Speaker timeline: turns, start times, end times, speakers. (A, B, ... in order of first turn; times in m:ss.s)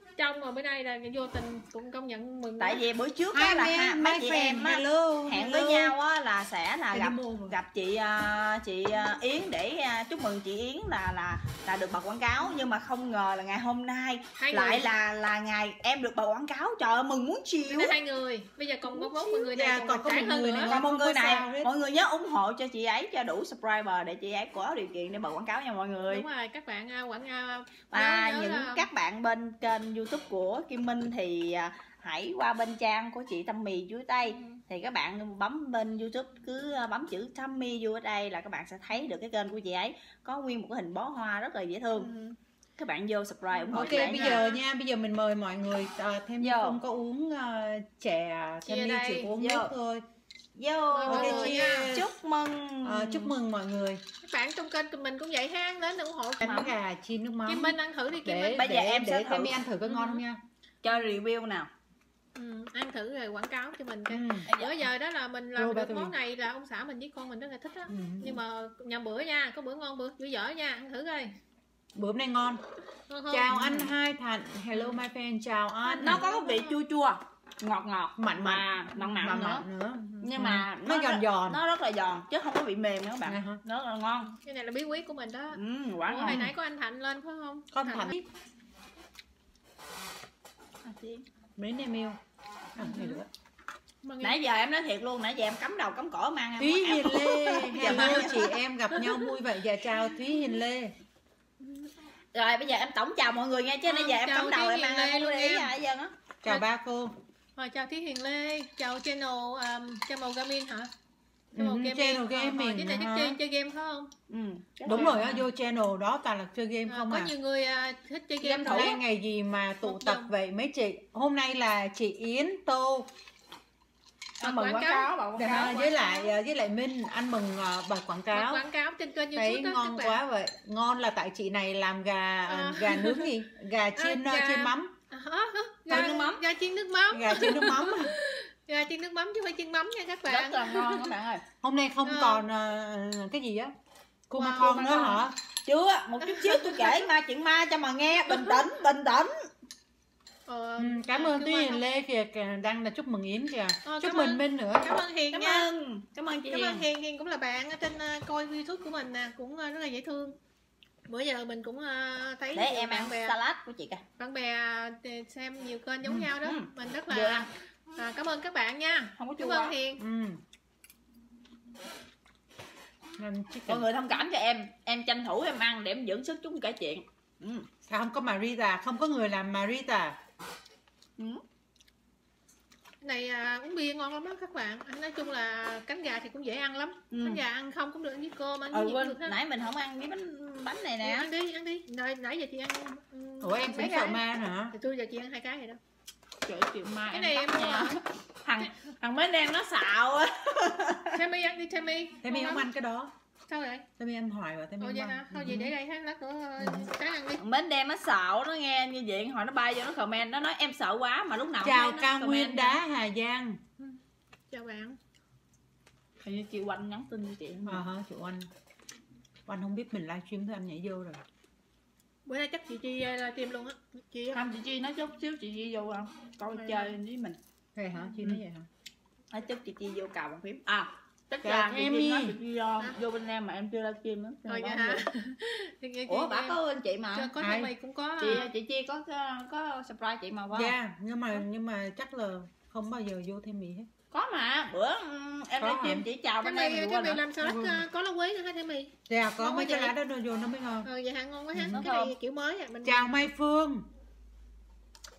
0:00.2-0:02.8 A
0:02.6-0:18.0 B
0:03.3-0:06.0 C
0:06.9-0:07.6 C
0:14.4-0:14.9 A
0:17.7-0:20.7 A
0:19.4-0:21.7 C
0:20.7-0:26.3 B
0:26.1-0:28.9 A
0:27.9-0:42.1 B
0:34.3-0:34.6 A
0:42.0-0:42.4 A
0:42.8-0:44.5 B
0:43.5-0:44.6 A
0:43.7-0:50.0 C
0:46.4-0:46.8 B
0:48.6-0:49.3 A
0:49.1-0:49.7 B
0:50.6-0:53.3 B
0:50.9-0:51.9 A
0:51.1-0:52.1 C
0:52.8-0:54.0 C
0:54.2-0:56.4 A
0:56.4-0:56.8 B
0:56.4-1:00.4 C
0:57.5-0:58.6 A
0:58.5-0:59.5 B
0:59.8-1:00.2 A
1:00.8-1:01.7 B
1:02.4-1:11.3 A
1:04.1-1:04.5 C
1:04.5-1:04.9 B
1:05.6-1:06.1 C
1:07.9-1:08.4 C
1:12.0-1:12.6 C
1:13.1-1:13.8 A
1:13.3-1:16.3 C
1:15.8-1:16.8 A
1:16.0-1:19.6 B
1:18.2-1:21.6 C
1:20.2-1:24.3 B
1:23.3-1:23.6 C
1:24.4-1:28.1 A
1:25.6-1:26.4 B
1:26.2-1:26.5 C
1:27.7-1:28.3 C
1:30.8-1:31.2 B
1:31.6-1:32.2 C
1:32.8-1:33.2 A
1:32.8-1:33.3 C
1:34.0-1:34.4 A
1:34.2-1:38.4 B
1:36.6-1:40.9 C
1:37.8-1:39.3 A
1:42.3-1:46.1 B
1:43.9-1:45.7 A
1:46.4-1:47.1 C
1:47.6-1:50.9 A
1:51.5-1:53.4 C
1:51.6-1:54.1 A
1:54.3-1:55.3 B
1:54.9-1:57.3 C
1:54.9-1:55.4 A
1:56.9-1:59.0 A
1:58.4-1:59.0 B
1:58.6-2:03.1 C
1:59.8-2:00.3 A
2:04.4-2:05.8 B
2:04.4-2:06.3 A
2:05.4-2:08.7 C
2:08.3-2:10.2 A
2:09.3-2:14.9 C
2:12.5-2:13.3 A
2:14.0-2:21.1 A
2:15.9-2:16.4 B
2:17.1-2:18.1 C
2:20.3-2:21.4 B
2:21.6-2:23.7 C
2:22.0-2:22.4 A
2:24.3-2:25.4 C
2:24.4-2:25.3 A
2:25.7-2:29.4 B
2:26.2-2:27.1 A
2:30.5-2:31.8 A
2:30.8-2:35.0 C
2:33.8-2:35.7 A
2:35.3-2:36.9 B
2:36.5-2:40.4 A
2:41.1-2:43.4 A
2:42.6-2:44.0 B
2:44.2-2:50.0 A
2:46.4-2:47.5 B
2:49.2-2:49.8 B
2:50.0-2:50.4 C
2:53.2-2:53.9 C
2:53.7-2:57.7 B
2:57.8-3:00.2 C
3:03.0-3:09.4 A
3:07.1-3:07.4 B
3:08.7-3:11.3 B
3:11.0-3:15.8 A
3:13.4-3:14.7 C
3:16.5-3:21.2 B
3:17.1-3:18.0 A
3:21.1-3:22.7 A
3:22.2-3:23.1 C
3:23.5-3:23.9 A
3:24.0-3:25.7 C
3:24.8-3:27.4 A
3:26.6-3:26.9 C
3:27.4-3:32.8 B
3:31.6-3:33.6 C
3:34.5-3:35.0 A
3:36.2-3:37.8 B
3:37.7-3:38.5 C
3:39.5-3:41.2 C
3:42.3-3:44.4 A
3:44.3-3:47.4 B
3:46.5-3:47.0 A
3:47.8-3:48.7 C
3:49.3-3:55.0 B
3:51.4-3:52.4 C
3:54.5-3:56.6 A
3:56.1-3:57.3 B
3:57.2-3:58.5 A
3:57.4-3:57.7 C
3:58.2-4:00.7 B
4:00.5-4:03.9 C
4:04.1-4:07.2 B
4:05.6-4:06.1 C
4:06.4-4:09.9 A
4:07.4-4:07.8 C
4:09.1-4:10.9 C
4:10.8-4:13.2 A
4:11.5-4:11.8 C
4:11.7-4:12.1 B
4:12.8-4:13.9 C